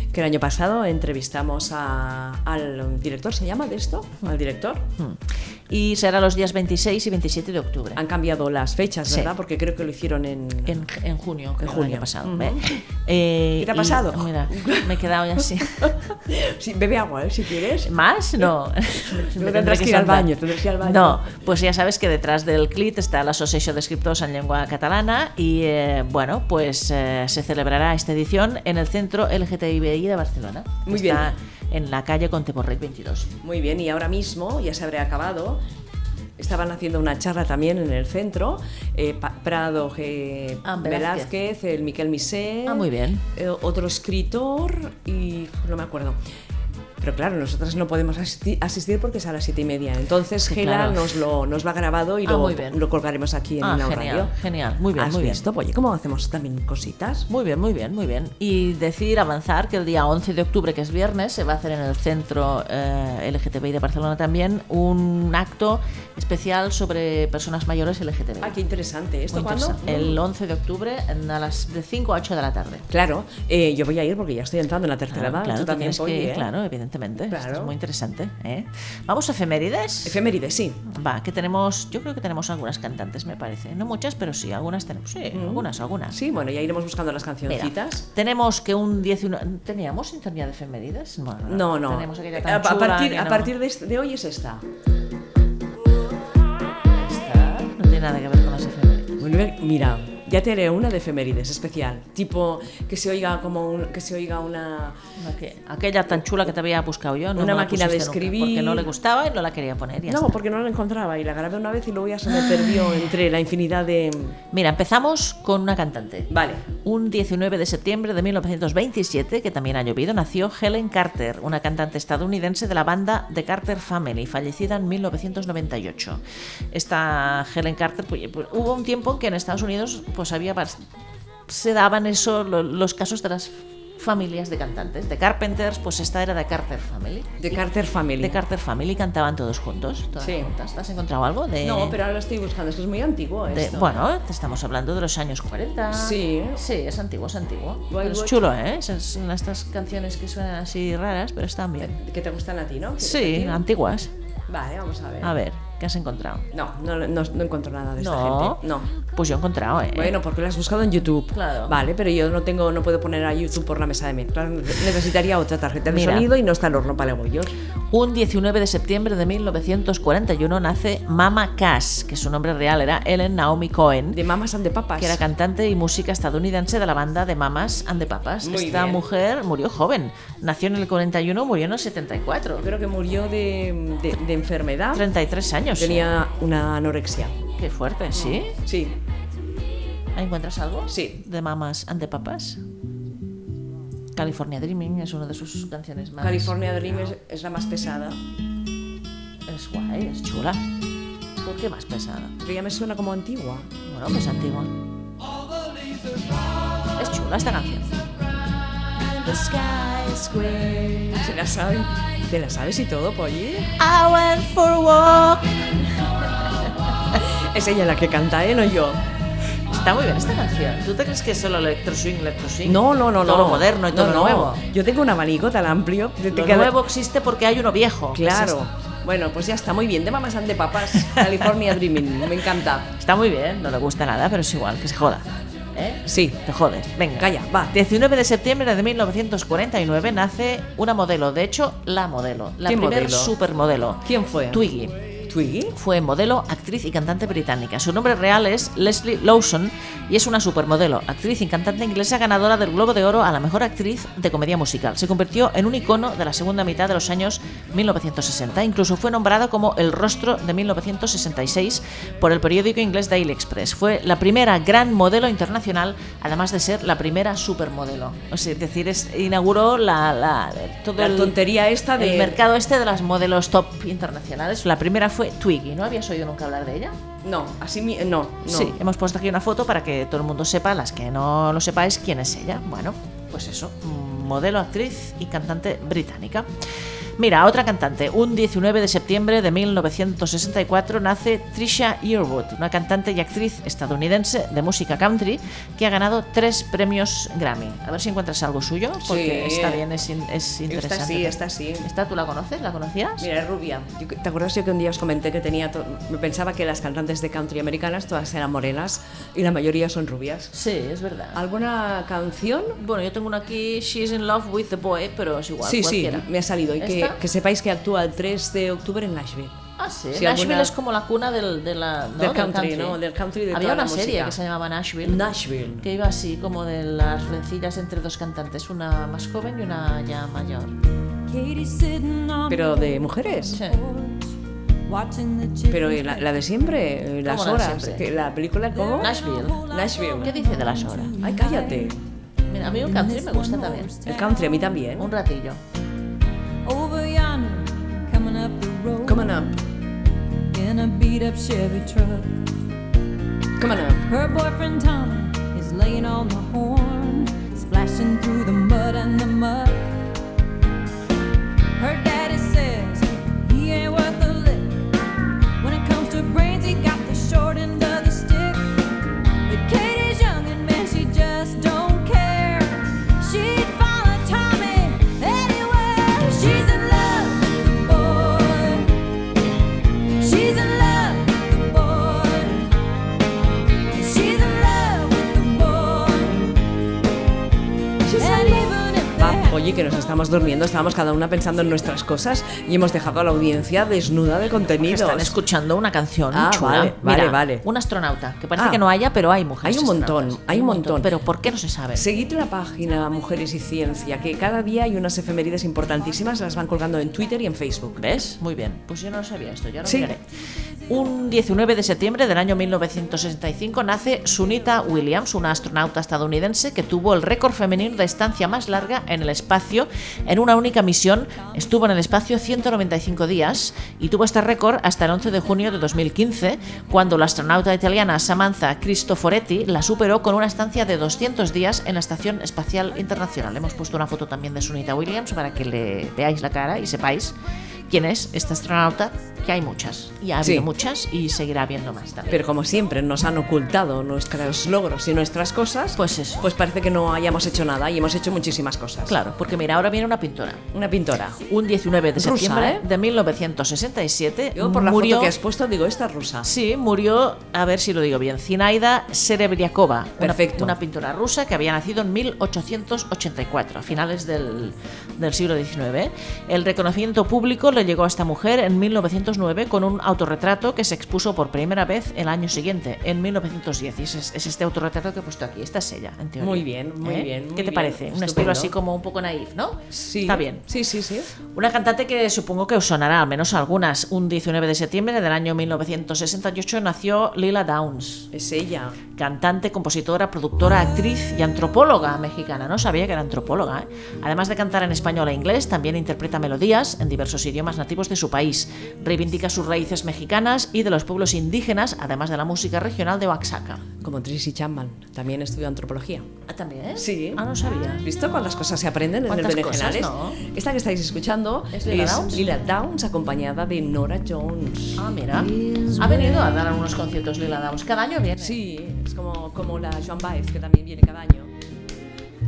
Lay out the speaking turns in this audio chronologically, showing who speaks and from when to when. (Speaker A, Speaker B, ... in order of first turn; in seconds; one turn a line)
Speaker A: 0.1-4.9
Speaker B: 5.0-8.0
Speaker A: 8.0-10.8
Speaker B: 10.6-16.0
Speaker A: 11.6-12.8
Speaker A: 13.6-17.9
Speaker B: 17.8-33.3
Speaker A: 19.1-21.4
Speaker A: 30.9-31.3
Speaker A: 33.4-35.6
Speaker A: 36.4-46.2
Speaker B: 40.6-41.3
Speaker B: 42.6-43.2
Speaker A: 47.0-54.3
Speaker B: 50.5-51.2
Speaker B: 52.2-52.8
Speaker B: 53.6-55.5
Speaker A: 55.0-57.3
Speaker B: 57.3-68.5
Speaker A: 68.4-70.2
Speaker B: 69.3-72.8
Speaker A: 72.9-76.5
Speaker B: 75.1-80.2
Speaker A: 77.3-77.7
Speaker A: 80.0-80.8
Speaker B: 80.8-86.2
Speaker A: 85.3-88.0
Speaker B: 87.5-93.5
Speaker A: 91.5-94.6
Speaker B: 96.9-99.2
Speaker A: 99.2-105.0
Speaker B: 105.2-110.3
Speaker A: 107.3-108.9
Speaker A: 110.1-114.4
Speaker B: 114.5-116.3
Speaker A: 116.3-116.7
Speaker B: 116.8-130.8
Speaker B: 131.5-137.6
Speaker A: 137.4-138.4
Speaker B: 138.2-142.0
Speaker A: 140.2-140.5
Speaker A: 141.6-144.0
Speaker B: 143.5-152.0
Speaker A: 145.9-146.6
Speaker A: 147.9-148.4
Speaker A: 151.8-153.6
Speaker B: 153.0-154.1
Speaker A: 154.5-155.3
Speaker B: 155.2-156.4
Speaker A: 156.5-158.9
Speaker B: 158.0-158.6
Speaker B: 159.1-160.2
Speaker A: 159.9-167.5
Speaker B: 161.3-161.8
Speaker B: 165.9-166.3
Speaker B: 167.9-174.2
Speaker A: 174.1-175.2
Speaker B: 175.0-182.7
Speaker A: 178.4-179.0
Speaker A: 182.6-185.1
Speaker B: 184.9-186.1
Speaker A: 185.8-187.3
Speaker B: 187.6-188.6
Speaker A: 188.1-188.9
Speaker B: 190.1-192.6
Speaker A: 190.9-191.2
Speaker B: 194.1-196.5
Speaker A: 196.2-198.2
Speaker B: 199.5-200.6
Speaker B: 201.4-202.3
Speaker A: 202.4-203.7
Speaker B: 203.8-204.7
Speaker B: 206.9-207.9
Speaker B: 209.2-211.2
Speaker A: 211.1-213.7
Speaker B: 213.8-215.6
Speaker A: 217.5-219.0
Speaker B: 219.7-224.6
Speaker A: 222.6-226.7
Speaker B: 226.3-228.6
Speaker A: 228.1-232.9
Speaker B: 231.0-231.3
Speaker B: 232.9-244.9
Speaker A: 236.1-236.4
Speaker A: 237.2-237.7
Speaker A: 242.7-243.3
Speaker A: 244.0-244.6
Speaker A: 245.3-245.7
Speaker B: 245.7-271.4
Speaker A: 271.0-272.4
Speaker B: 272.0-277.0
Speaker A: 277.2-278.8
Speaker B: 278.4-286.5
Speaker B: 287.2-303.3
Speaker A: 299.0-299.8
Speaker A: 300.7-301.9
Speaker A: 303.2-310.5
Speaker B: 310.5-311.4
Speaker A: 311.3-312.8
Speaker B: 312.8-317.2
Speaker A: 315.6-319.6
Speaker B: 319.8-323.0
Speaker A: 320.1-320.7
Speaker A: 322.2-324.4
Speaker B: 323.5-325.3
Speaker A: 325.0-325.8
Speaker B: 325.8-330.8
Speaker C: 331.2-336.4
Speaker A: 332.5-333.6
Speaker B: 333.5-333.8
Speaker A: 335.7-340.3
Speaker B: 337.2-338.1
Speaker B: 339.0-339.6
Speaker C: 339.7-341.9
Speaker B: 340.2-341.1
Speaker A: 341.2-342.0
Speaker B: 342.5-343.9
Speaker C: 342.8-344.7
Speaker A: 344.1-345.1
Speaker B: 345.0-345.6
Speaker C: 346.6-349.4
Speaker A: 349.0-349.6
Speaker C: 350.5-352.5
Speaker A: 353.6-354.0
Speaker C: 354.1-360.0
Speaker C: 361.8-364.9
Speaker C: 365.6-379.0
Speaker C: 380.2-382.7
Speaker C: 383.9-386.6
Speaker A: 388.0-395.4
Speaker C: 388.2-389.6
Speaker B: 394.8-402.0
Speaker A: 396.3-397.6
Speaker A: 398.6-398.8
Speaker A: 399.6-401.1
Speaker A: 401.9-408.0
Speaker B: 408.0-410.2
Speaker A: 409.8-410.1
Speaker B: 410.9-437.4
Speaker B: 437.9-442.4
Speaker A: 440.4-440.7
Speaker A: 442.3-449.2
Speaker B: 446.0-446.5
Speaker B: 449.0-450.6
Speaker A: 450.7-451.4
Speaker B: 451.5-455.3
Speaker A: 452.1-452.8
Speaker A: 454.5-456.5
Speaker B: 456.4-480.6
Speaker A: 460.2-460.8
Speaker A: 476.4-478.7
Speaker A: 479.9-481.3
Speaker B: 481.5-488.3
Speaker A: 488.3-489.0
Speaker B: 489.2-503.8
Speaker A: 504.0-506.2
Speaker B: 506.5-508.1
Speaker A: 507.0-507.4
Speaker A: 508.0-516.5
Speaker B: 509.3-510.4
Speaker B: 511.7-512.5
Speaker B: 515.0-518.6
Speaker A: 518.4-521.5